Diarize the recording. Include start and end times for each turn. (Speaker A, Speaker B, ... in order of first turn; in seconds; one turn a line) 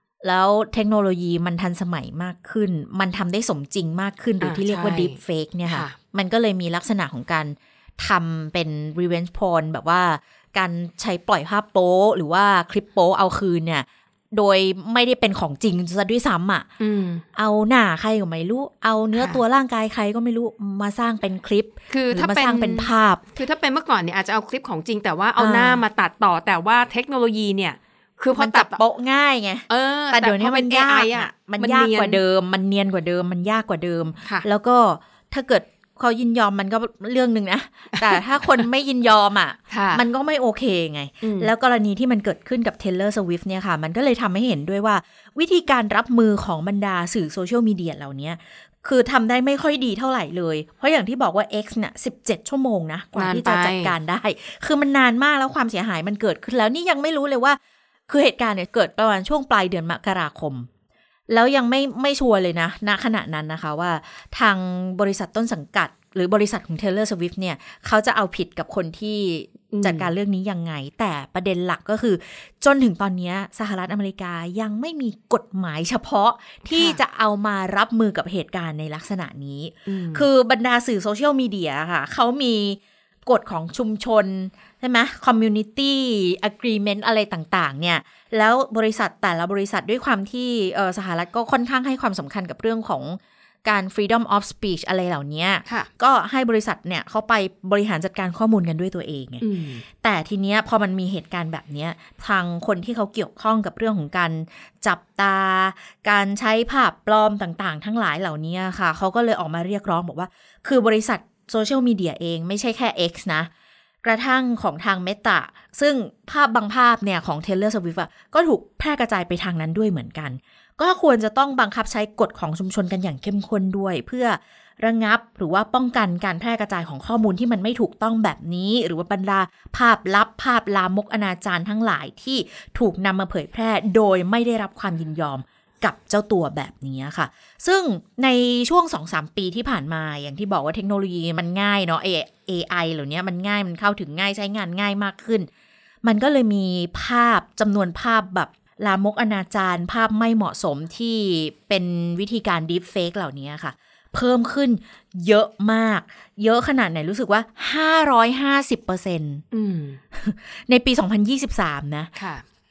Speaker A: 0.2-16.7
Speaker B: 4.4-6.0
Speaker B: 16.8-17.2
Speaker A: 17.4-23.2
Speaker B: 19.2-19.4
Speaker B: 21.9-28.8
Speaker A: 25.4-25.8
Speaker A: 28.4-60.7
Speaker B: 29.7-32.2
Speaker B: 37.9-38.6
Speaker B: 39.7-40.0
Speaker B: 41.2-41.5
Speaker B: 53.2-53.9
Speaker A: 61.3-113.5
Speaker B: 69.7-70.1
Speaker B: 76.7-77.0
Speaker B: 79.9-80.3
Speaker B: 99.4-99.8
Speaker A: 114.0-145.5
Speaker A: 146.0-159.4
Speaker B: 159.5-160.0
Speaker A: 160.1-162.1
Speaker B: 162.2-162.4